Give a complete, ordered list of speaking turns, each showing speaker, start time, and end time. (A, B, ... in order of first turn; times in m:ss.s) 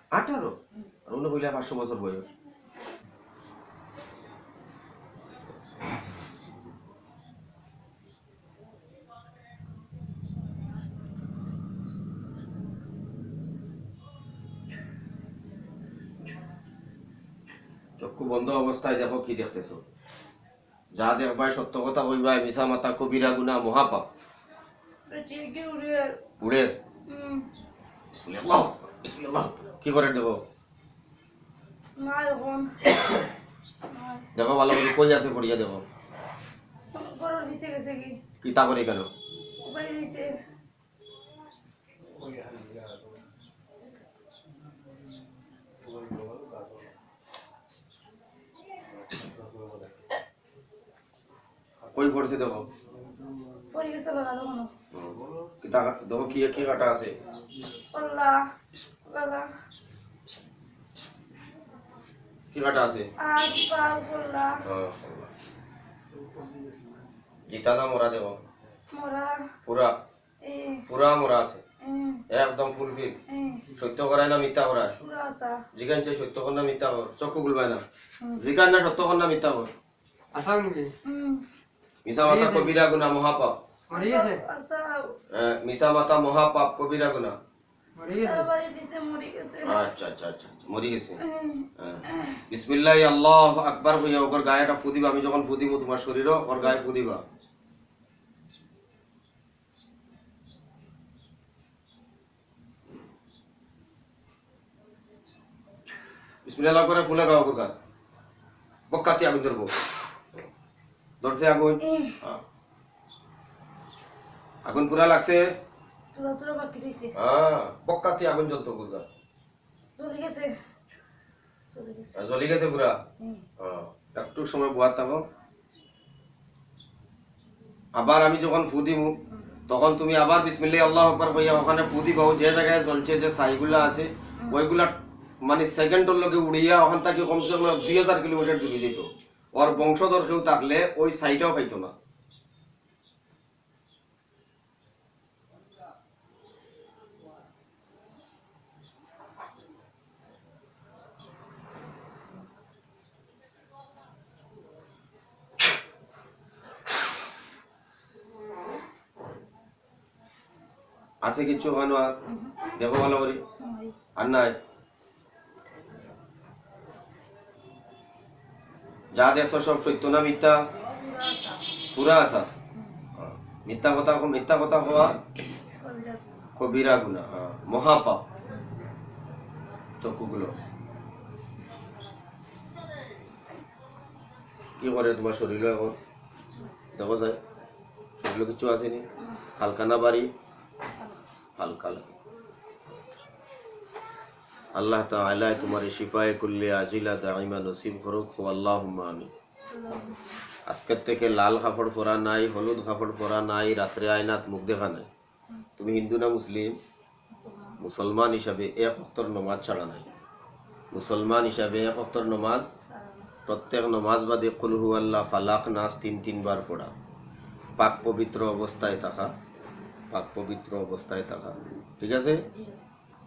0:00.1-0:00.6 A
0:01.1-0:02.2 A
0:18.0-0:19.8 A
0:21.0-0:24.0 A
0:25.1-0:26.2 B
0:26.4-0:26.7 A
0:27.1-0:27.4 B
0:28.1-0:30.4 A
0:32.0-0:32.9 B
0:33.9-0:34.2 B
0:34.4-0:35.8 A
0:37.0-0:38.2 B
0:38.4-0:39.1 A
0:39.6-0:40.4 B
0:51.9-0:52.7 A
0:53.7-0:54.7 B
0:54.9-0:57.2 A
0:57.9-0:58.4 B
0:59.1-0:59.5 B
1:02.5-1:03.1 A
1:03.2-1:04.6 B
1:04.6-1:05.3 A
1:07.5-1:08.4 A
1:08.9-1:09.4 B
1:09.7-1:10.0 A
1:10.4-1:10.8 B
1:10.9-1:11.6 A
1:11.8-1:12.2 B
1:12.3-1:13.2 A
1:13.3-1:13.6 B
1:13.8-1:15.0 A
1:15.0-1:15.6 B
1:15.7-1:17.8 A
1:18.4-1:19.7 A
1:20.3-1:20.9 C
1:21.1-1:21.4 B
1:22.1-1:23.6 A
1:22.2-1:22.8 C
1:23.9-1:24.4 C
1:23.9-1:25.1 B
1:25.3-1:27.4 A
1:28.0-1:28.5 C
1:28.2-1:29.8 B
1:29.6-1:31.2 A
1:31.2-1:32.4 B
1:31.8-1:37.2 A
1:46.4-1:47.7 A
1:48.9-1:49.7 A
1:51.2-1:52.4 A
1:51.8-1:52.2 B
1:54.6-1:55.5 A
1:56.2-1:57.1 B
1:57.2-1:59.1 A
2:00.0-2:00.5 B
2:01.7-2:02.1 B
2:02.2-2:03.0 A
2:03.6-2:05.2 A
2:08.0-2:09.1 A
2:09.7-2:21.9 A
2:41.2-2:42.1 A
2:42.3-2:42.6 B
2:42.8-2:43.4 A
2:43.6-2:43.9 B
2:44.2-2:44.6 A
2:49.1-2:50.6 A
2:50.9-2:51.6 B
2:51.9-2:52.5 A
2:53.2-2:55.2 A
2:55.8-2:56.2 B
2:56.6-2:58.2 A
3:00.0-3:00.6 A
3:04.8-3:06.0 A
3:07.0-3:07.4 A
3:08.2-3:09.0 A
3:09.6-3:10.3 A
3:11.6-3:12.1 A
3:14.7-3:19.3 A
3:19.7-3:20.4 B
3:20.7-3:25.1 A
3:25.8-3:26.8 A
3:27.3-3:27.8 B
3:27.8-3:30.0 A
3:30.9-3:32.7 A
3:32.9-3:33.3 B
3:33.5-3:36.9 A
3:37.8-3:39.3 A
3:40.1-3:42.4 A
3:42.5-3:42.8 B